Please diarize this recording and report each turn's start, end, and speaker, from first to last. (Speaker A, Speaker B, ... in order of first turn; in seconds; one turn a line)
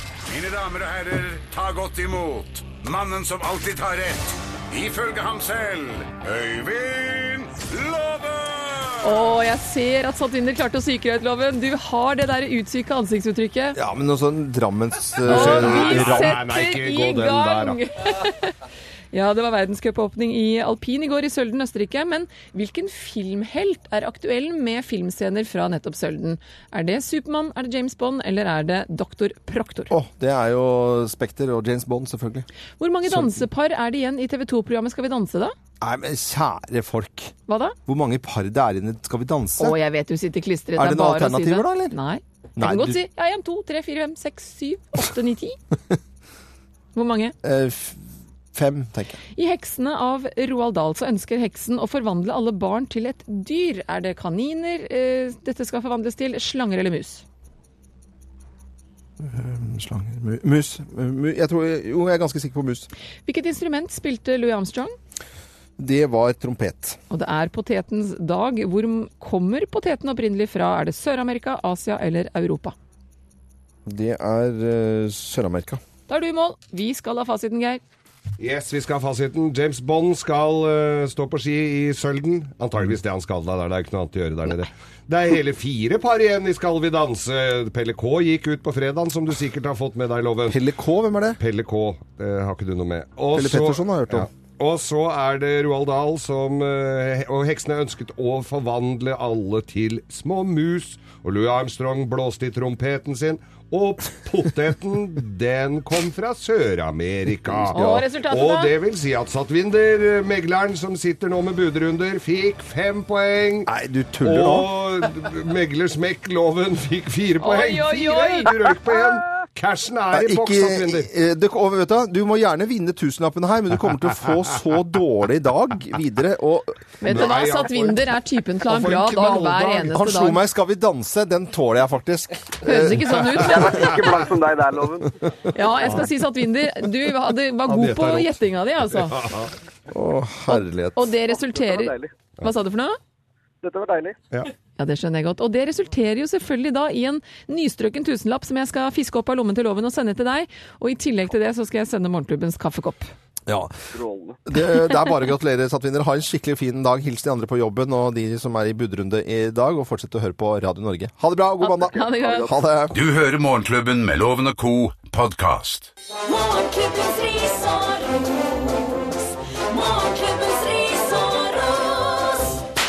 Speaker A: 0.3-9.1
Speaker B: 9.0-13.8
Speaker C: 13.8-16.4
Speaker D: 15.2-17.8
Speaker B: 15.3-18.6
Speaker B: 19.1-29.9
Speaker C: 29.9-32.5
Speaker B: 32.8-35.5
Speaker C: 33.1-33.4
Speaker C: 35.8-37.4
Speaker B: 37.5-37.8
Speaker C: 37.9-39.8
Speaker B: 39.6-45.6
Speaker C: 40.8-42.0
Speaker C: 42.6-43.0
Speaker B: 46.9-47.4
Speaker C: 47.4-48.0
Speaker C: 48.5-49.2
Speaker B: 49.4-57.2
Speaker C: 59.2-62.9
Speaker B: 63.3-65.0
Speaker C: 65.8-67.0
Speaker B: 67.1-72.8
Speaker C: 73.9-75.8
Speaker B: 76.1-77.8
Speaker D: 78.4-90.6
Speaker C: 90.5-91.4
Speaker D: 91.4-113.7
Speaker C: 93.3-94.3
Speaker B: 107.7-108.7
Speaker C: 113.7-114.7
Speaker D: 114.2-121.1
Speaker B: 117.4-118.5
Speaker C: 120.1-127.1
Speaker B: 127.0-130.4
Speaker D: 127.1-129.9
Speaker C: 129.9-133.9
Speaker B: 132.6-133.9
Speaker E: 133.4-135.3
Speaker B: 135.5-139.2
Speaker D: 137.7-138.4
Speaker D: 139.0-139.5
Speaker C: 139.9-141.1
Speaker B: 140.5-143.0
Speaker E: 141.3-142.1
Speaker E: 143.6-144.2
Speaker B: 144.8-153.1
Speaker C: 153.5-153.8
Speaker E: 153.9-154.4
Speaker C: 154.4-163.0
Speaker B: 161.6-162.5
Speaker E: 161.9-162.5
Speaker A: 162.9-165.9
Speaker F: 166.3-172.6